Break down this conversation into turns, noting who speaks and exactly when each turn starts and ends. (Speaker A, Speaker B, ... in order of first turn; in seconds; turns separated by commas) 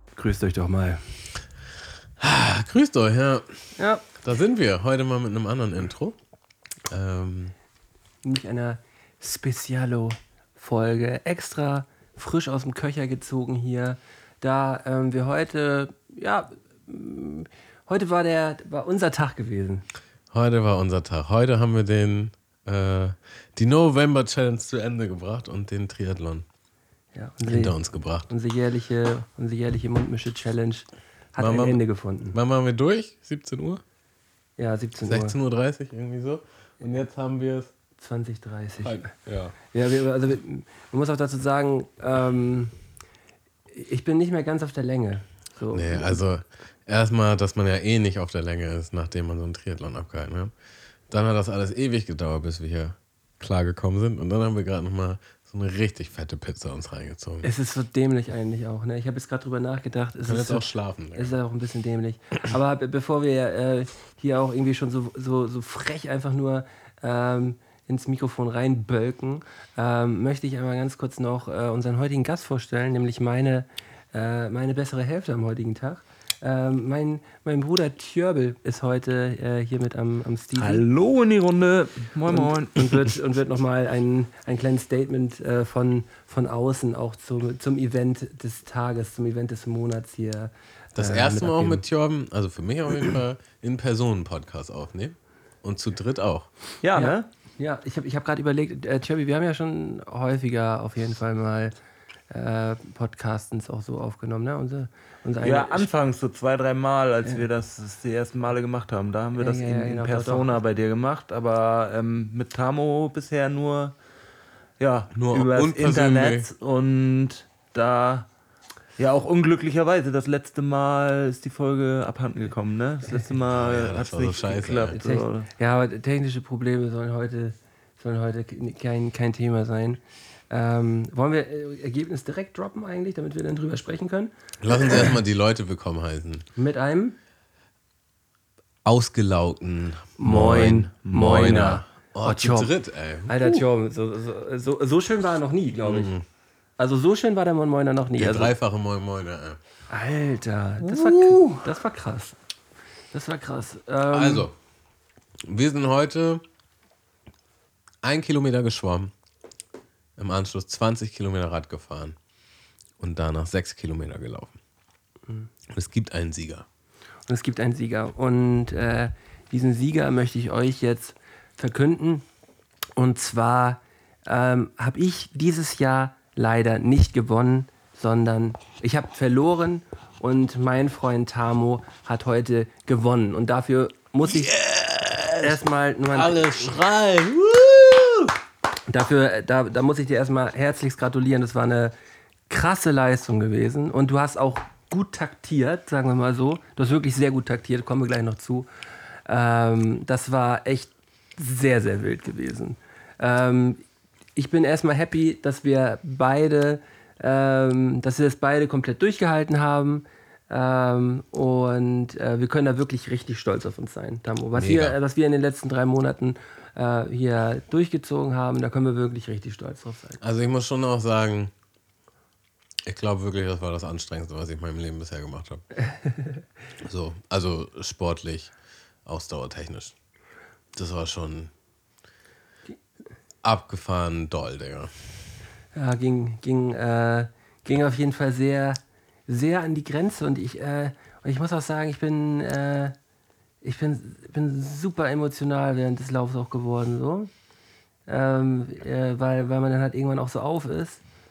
Speaker A: 0.1-1.0, Speaker B: 2.2-3.5, Speaker A: 3.8-4.0, Speaker B: 4.2-6.2, Speaker B: 6.9-7.5, Speaker A: 8.2-19.9, Speaker B: 20.3-26.4, Speaker A: 27.1-27.8, Speaker B: 27.4-28.3, Speaker A: 28.3-32.4, Speaker B: 31.4-31.8, Speaker B: 32.3-33.8, Speaker A: 34.6-35.4, Speaker B: 35.0-37.7, Speaker A: 38.0-39.1, Speaker B: 38.8-39.5, Speaker A: 39.7-42.7, Speaker A: 43.7-46.2, Speaker B: 45.7-50.5, Speaker B: 51.1-57.5, Speaker A: 57.4-80.8, Speaker B: 60.3-61.4, Speaker C: 80.6-82.8, Speaker A: 82.3-91.8, Speaker B: 91.0-96.5, Speaker C: 96.8-97.2, Speaker A: 97.0-101.7, Speaker A: 102.3-105.9, Speaker C: 105.4-113.9, Speaker A: 109.4-110.5, Speaker C: 114.8-118.3, Speaker B: 115.1-116.5, Speaker C: 119.0-125.5, Speaker B: 123.5-125.0, Speaker A: 124.9-135.1, Speaker B: 134.6-136.4, Speaker A: 136.6-137.2, Speaker B: 138.8-143.6, Speaker A: 140.2-142.7, Speaker A: 143.3-146.1, Speaker B: 145.8-146.2, Speaker A: 146.8-148.5, Speaker B: 148.2-149.6, Speaker A: 149.9-152.3, Speaker A: 153.1-154.5, Speaker B: 154.1-154.5, Speaker B: 155.4-156.4, Speaker B: 158.0-159.1, Speaker B: 160.2-162.2, Speaker B: 163.0-164.6, Speaker B: 165.7-166.7, Speaker A: 167.3-172.2, Speaker A: 172.9-184.5, Speaker B: 184.2-185.6, Speaker A: 185.4-186.5, Speaker B: 186.1-188.3, Speaker A: 188.9-191.9, Speaker A: 192.5-198.7, Speaker A: 199.3-203.8, Speaker A: 204.3-220.2, Speaker B: 214.5-215.0, Speaker B: 220.2-221.5, Speaker B: 222.8-225.6, Speaker B: 226.8-228.5, Speaker B: 229.1-229.9, Speaker B: 230.8-231.5, Speaker B: 233.4-234.9, Speaker A: 235.7-242.9, Speaker A: 243.6-247.3, Speaker A: 248.1-251.0